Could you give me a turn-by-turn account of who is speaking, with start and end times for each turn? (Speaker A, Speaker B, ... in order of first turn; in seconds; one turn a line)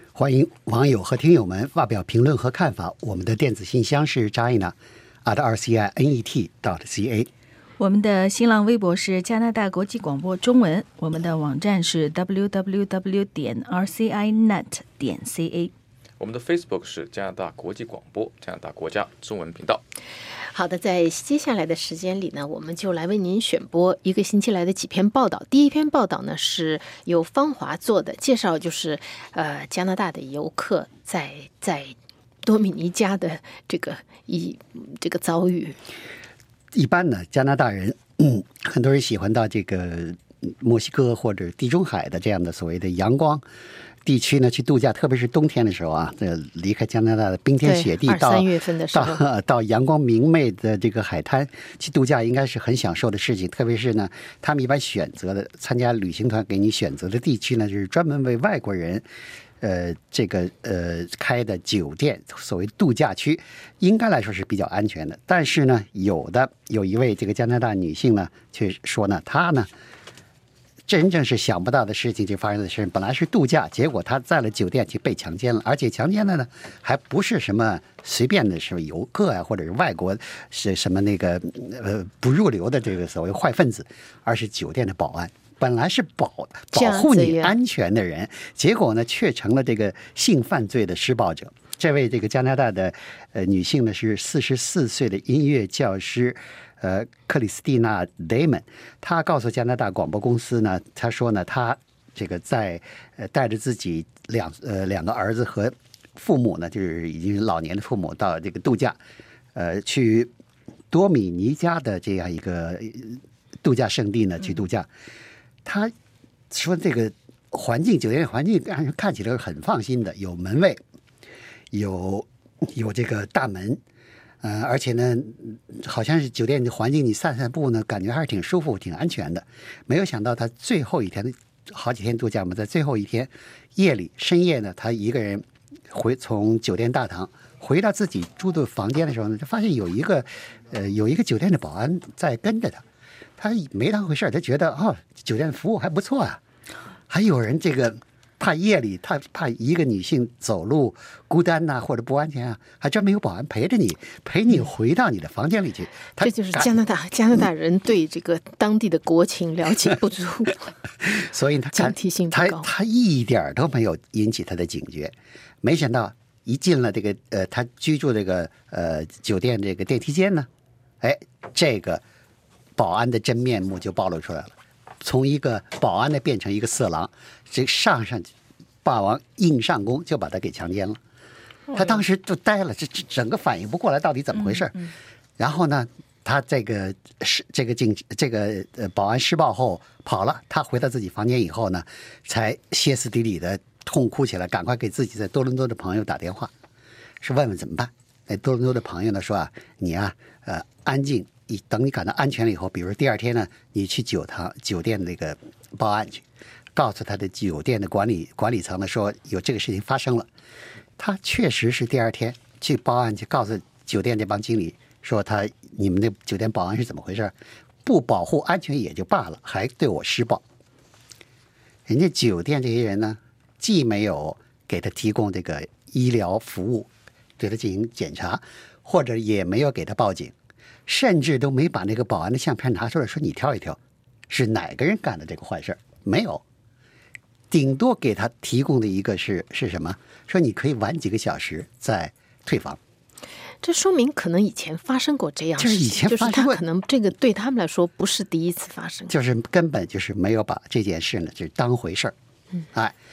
Speaker A: 0.1-7.3
Speaker B: 7.8-15.7
Speaker C: 16.2-19.8
Speaker D: 20.5-35.8
Speaker A: 36.7-43.4
Speaker A: 44.0-59.0
Speaker D: 47.6-49.2
Speaker A: 59.6-69.7
Speaker A: 70.9-109.0
Speaker D: 86.7-87.5
Speaker A: 109.5-110.3
Speaker A: 110.9-114.9
Speaker A: 115.7-115.9
Speaker A: 116.5-120.8
Speaker A: 121.7-123.8
Speaker A: 124.4-142.8
Speaker A: 143.4-146.4
Speaker A: 147.1-156.7
Speaker D: 156.2-160.7
Speaker A: 161.0-170.5
Speaker D: 161.7-162.7
Speaker A: 171.0-172.0
Speaker A: 172.8-178.3
Speaker A: 178.8-181.0
Speaker B: 181.7-182.0
Speaker A: 181.7-196.5
Speaker A: 197.2-206.2
Speaker A: 206.8-210.3
Speaker A: 211.0-217.3
Speaker A: 217.8-220.4
Speaker A: 221.9-230.3
Speaker A: 230.9-233.8
Speaker A: 234.3-236.4
Speaker A: 237.5-242.8
Speaker D: 243.6-249.1
Speaker A: 245.6-246.6
Speaker A: 249.1-252.2